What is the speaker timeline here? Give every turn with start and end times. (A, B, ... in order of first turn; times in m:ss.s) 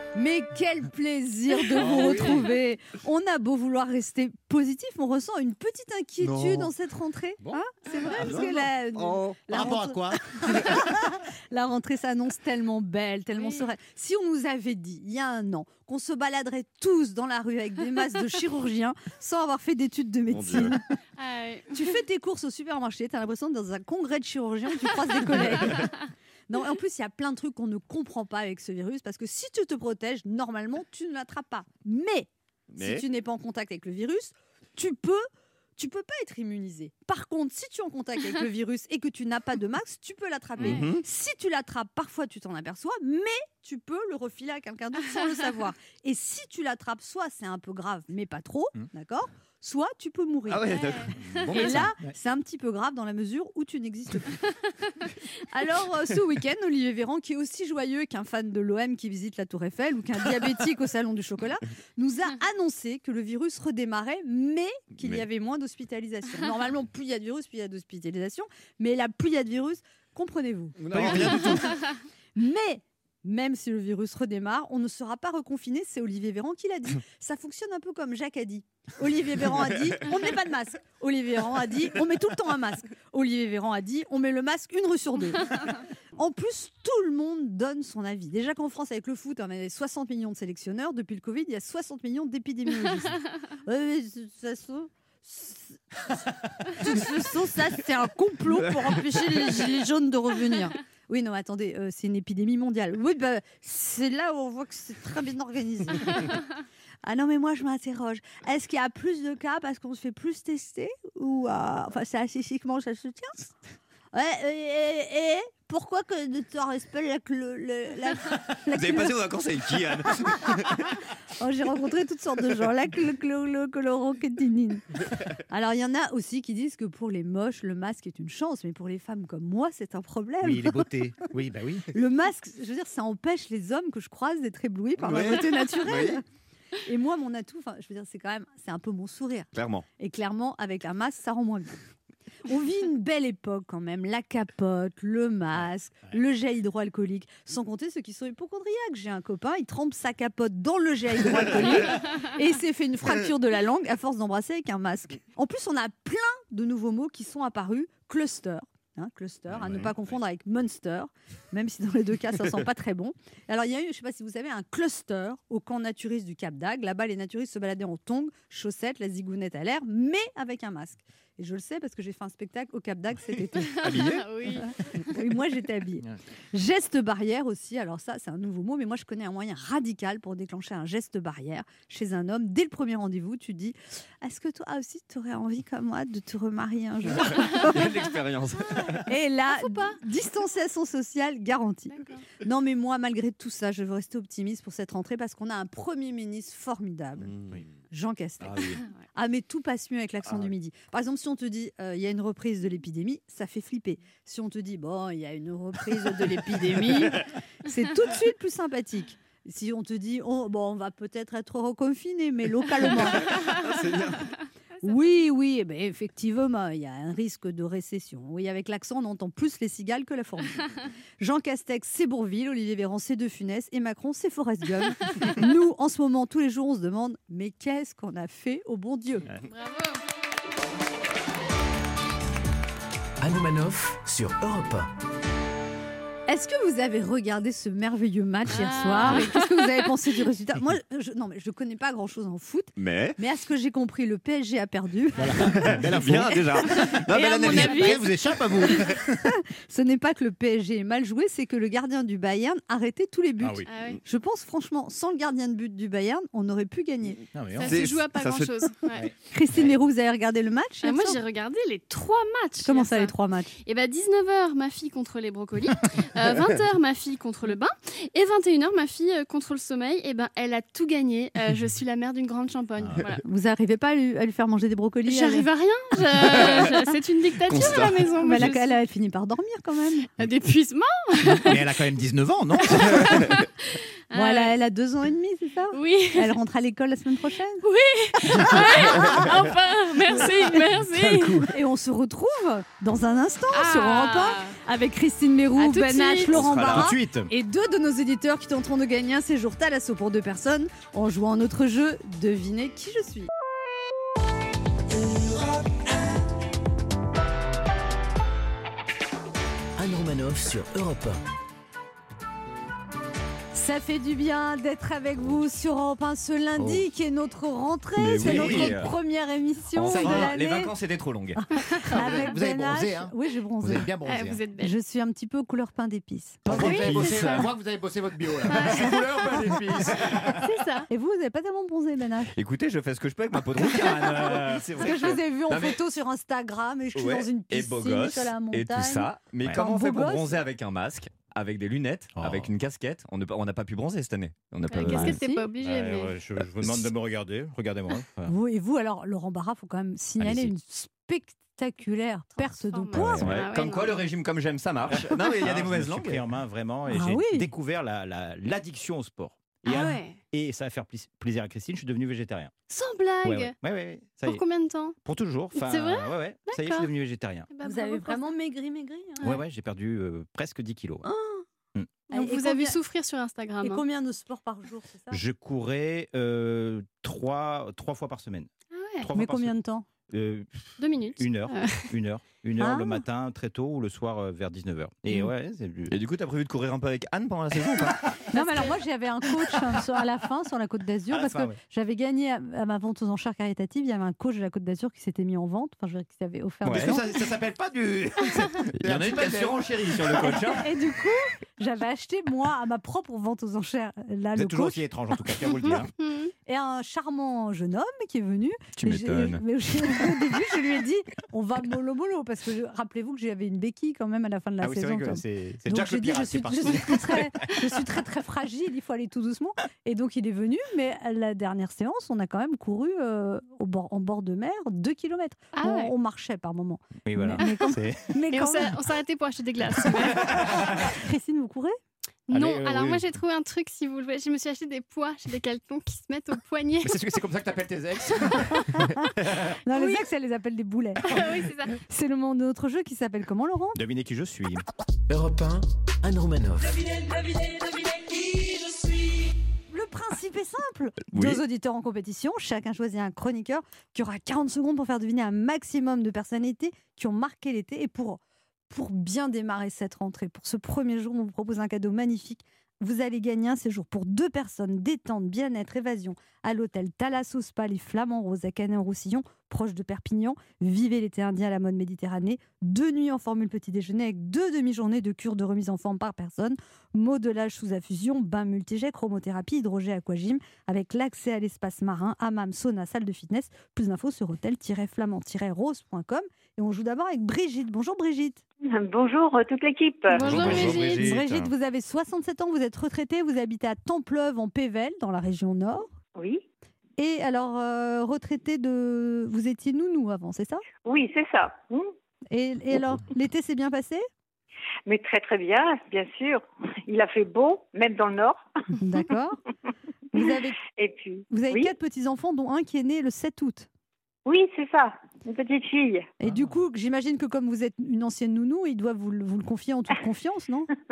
0:00.2-0:20.8 A
0:01.9-0:02.2 B
0:06.2-0:06.7 B
0:08.2-0:10.8 B
0:13.4-0:13.7 C
0:21.2-0:22.0 C
0:21.7-0:26.0 A
0:26.5-0:50.7 A
0:32.7-0:33.0 D
0:40.6-0:40.8 C
0:40.6-0:41.0 D
0:50.5-0:51.8 D
0:50.7-0:51.7 C
0:51.3-0:52.1 B
0:51.5-0:54.4 A
0:55.5-1:11.6 A
1:10.8-1:11.6 D
1:10.9-1:11.4 B
1:12.4-1:35.8 A
1:36.7-1:46.3 A
1:47.0-1:53.5 A
1:54.1-1:59.1 A
1:58.7-2:00.9 D
2:00.2-2:00.5 A
2:01.4-2:04.9 A
2:05.5-2:10.9 A
2:10.4-2:11.9 B
2:11.9-2:16.2 A
2:15.0-2:16.2 D
2:16.8-2:21.8 A
2:19.5-2:19.8 D
2:22.5-2:54.2 A
2:53.8-2:54.7 C
2:53.8-2:54.2 D
2:55.0-3:07.9 A
3:07.1-3:09.1 D
3:08.7-3:17.3 A
3:09.5-3:10.0 C
3:11.9-3:12.2 C
3:17.4-3:17.6 D
3:17.9-3:33.3 A
3:33.0-3:34.3 D
3:34.8-3:49.3 A
3:49.5-3:50.0 C
3:53.2-3:54.9 E
3:56.3-4:05.9 A
3:58.5-3:59.9 C
4:02.8-4:03.2 D
4:05.2-4:06.7 B
4:05.5-4:08.2 D
4:07.1-4:17.3 A
4:07.6-4:09.1 B
4:13.4-4:13.7 B
4:13.7-4:14.0 C
4:17.3-4:17.8 B
4:17.6-4:19.1 C
4:17.6-4:18.6 D
4:19.3-4:21.2 A
4:20.8-4:23.1 C
4:22.6-4:23.6 A
4:23.6-4:33.2 C
4:33.2-4:35.5 A
4:35.1-4:38.8 C
4:36.6-4:36.9 A
4:37.5-4:38.1 D
4:38.2-4:40.1 A
4:40.2-4:41.7 C
4:41.4-4:43.4 B
4:42.7-4:44.6 C
4:44.1-4:47.6 A
4:45.7-4:46.4 C
4:47.6-4:51.4 C
4:48.5-4:49.1 A
4:50.1-4:50.6 A
4:50.9-4:51.3 B
4:51.5-5:03.3 A
4:53.5-4:54.6 C
4:55.6-4:56.3 C
4:56.3-4:56.9 D
4:56.7-4:57.3 B
5:09.8-5:11.2 E
5:13.5-5:20.7 A
5:18.0-5:18.9 D
5:18.2-5:18.8 B
5:19.8-5:21.4 D
5:19.9-5:20.3 B
5:21.4-5:23.9 A
5:21.9-5:24.4 B
5:24.0-5:24.7 C
5:24.6-5:26.8 A
5:26.5-5:30.3 B
5:26.5-5:27.3 D
5:26.5-5:27.5 C
5:28.5-5:28.9 C
5:28.5-5:29.6 A
5:29.8-5:30.9 C
5:30.9-5:32.4 A
5:32.4-5:35.8 D
5:34.8-5:40.4 A
5:37.0-5:45.2 D
5:42.2-5:42.5 B
5:44.7-5:46.2 C
5:44.8-5:48.3 B
5:45.2-5:45.4 A
5:48.3-5:53.4 A
5:52.4-5:54.0 C
5:52.9-5:53.5 B
5:53.2-5:56.2 D
5:54.9-6:02.5 B
5:56.9-5:57.5 A
5:59.7-6:00.2 C
6:02.7-6:03.6 C
6:03.2-6:04.4 B
6:04.3-6:05.0 C
6:05.0-6:07.5 B
6:05.5-6:06.9 C
6:07.5-6:08.4 C
6:07.6-6:09.3 A
6:09.2-6:11.1 B
6:11.0-6:11.4 A
6:12.1-6:13.8 C
6:12.1-6:12.8 A
6:13.6-6:15.2 A
6:15.1-6:19.6 B
6:18.7-6:19.1 C
6:19.1-6:19.9 A
6:20.1-6:25.9 B
6:20.8-6:21.9 C
6:22.6-6:23.0 A
6:25.9-6:28.0 D
6:28.3-6:37.0 A
6:31.1-6:31.6 B
6:36.6-6:37.0 D
6:36.7-6:40.4 B
6:38.7-6:40.7 D
6:40.2-6:44.8 A
6:44.4-6:45.9 B
6:45.5-6:46.3 C
6:46.5-7:08.8 A
6:48.8-6:49.4 D
6:54.6-6:57.3 B
7:05.6-7:05.9 C
7:07.1-7:08.1 B
7:08.3-7:10.4 C
7:10.4-7:11.8 A
7:12.3-7:17.1 C
7:12.3-7:13.1 B
7:16.8-7:18.8 B
7:18.7-7:19.1 A
7:19.7-7:23.8 A
7:19.7-7:20.0 C
7:21.1-7:21.8 C
7:23.8-7:24.6 B
7:25.1-7:26.8 E
7:29.7-8:08.4 A
7:31.1-7:31.4 D
8:08.7-8:10.7 F
8:10.1-8:11.1 C
8:10.2-8:11.5 D
8:10.3-8:15.9 A
8:16.2-8:16.4 F
8:17.0-8:20.6 A
8:20.8-8:21.9 F
8:22.3-8:24.0 A
8:24.9-8:28.4 F
8:28.8-8:29.4 A
8:30.1-8:30.6 A
8:30.2-8:31.7 F
8:31.3-8:33.7 A
8:34.3-8:36.1 F
8:36.2-8:40.7 A